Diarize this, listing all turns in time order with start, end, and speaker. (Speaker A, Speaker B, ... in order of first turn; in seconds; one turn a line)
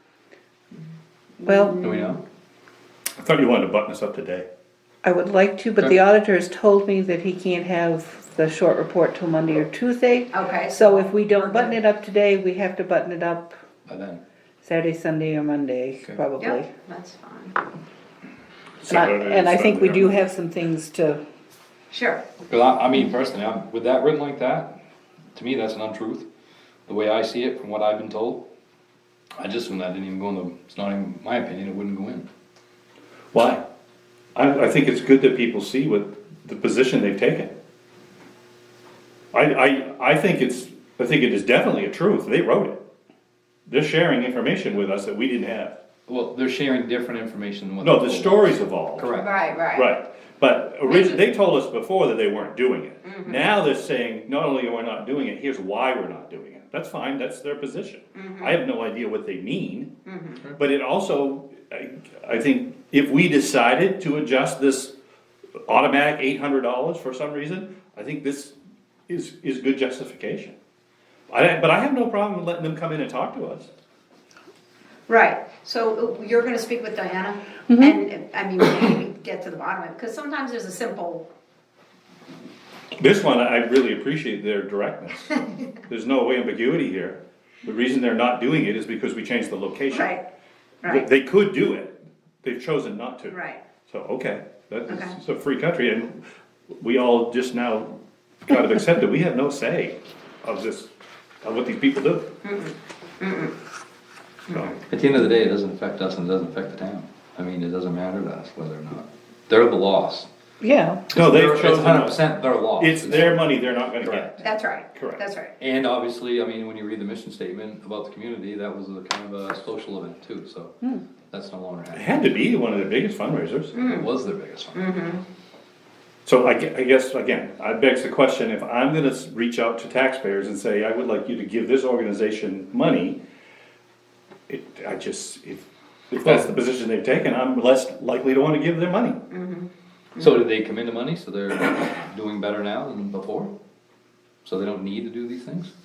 Speaker A: 1.4-1.8
Speaker B: 1.5-2.2
Speaker C: 1.8-2.2
Speaker D: 3.2-4.5
Speaker A: 5.0-13.6
Speaker B: 10.3-11.8
Speaker C: 13.9-14.2
Speaker A: 14.6-16.8
Speaker B: 16.4-17.6
Speaker D: 18.8-20.3
Speaker A: 18.9-21.2
Speaker B: 21.9-22.3
Speaker C: 22.4-24.7
Speaker C: 25.4-26.3
Speaker C: 26.9-28.4
Speaker C: 29.4-32.3
Speaker D: 33.3-33.6
Speaker D: 34.4-37.5
Speaker D: 39.3-42.8
Speaker D: 43.7-45.8
Speaker C: 46.1-49.4
Speaker D: 47.8-49.1
Speaker B: 49.1-49.9
Speaker D: 49.7-59.9
Speaker B: 50.8-51.2
Speaker B: 53.1-53.4
Speaker B: 58.1-58.6
Speaker B: 60.1-60.4
Speaker D: 60.5-64.9
Speaker D: 65.7-68.5
Speaker D: 69.1-70.5
Speaker D: 71.3-73.7
Speaker B: 75.1-81.3
Speaker A: 77.7-78.0
Speaker D: 83.0-90.1
Speaker B: 89.9-90.2
Speaker D: 90.9-96.2
Speaker B: 93.3-93.6
Speaker B: 94.9-95.2
Speaker D: 96.8-100.9
Speaker D: 101.4-102.3
Speaker B: 102.4-103.5
Speaker B: 104.5-104.8
Speaker D: 104.5-104.8
Speaker C: 104.9-110.3
Speaker A: 110.6-111.0
Speaker D: 111.1-114.3
Speaker C: 111.2-113.5
Speaker C: 114.0-114.4
Speaker B: 114.4-115.5
Speaker D: 114.9-115.2
Speaker C: 115.6-120.7
Speaker C: 121.3-122.3
Speaker D: 121.9-123.8
Speaker B: 123.7-124.1
Speaker C: 123.8-124.9
Speaker B: 124.7-125.2
Speaker D: 126.2-133.2
Speaker D: 134.5-139.2
Speaker B: 139.3-140.4
Speaker C: 140.2-143.5
Speaker C: 144.4-145.7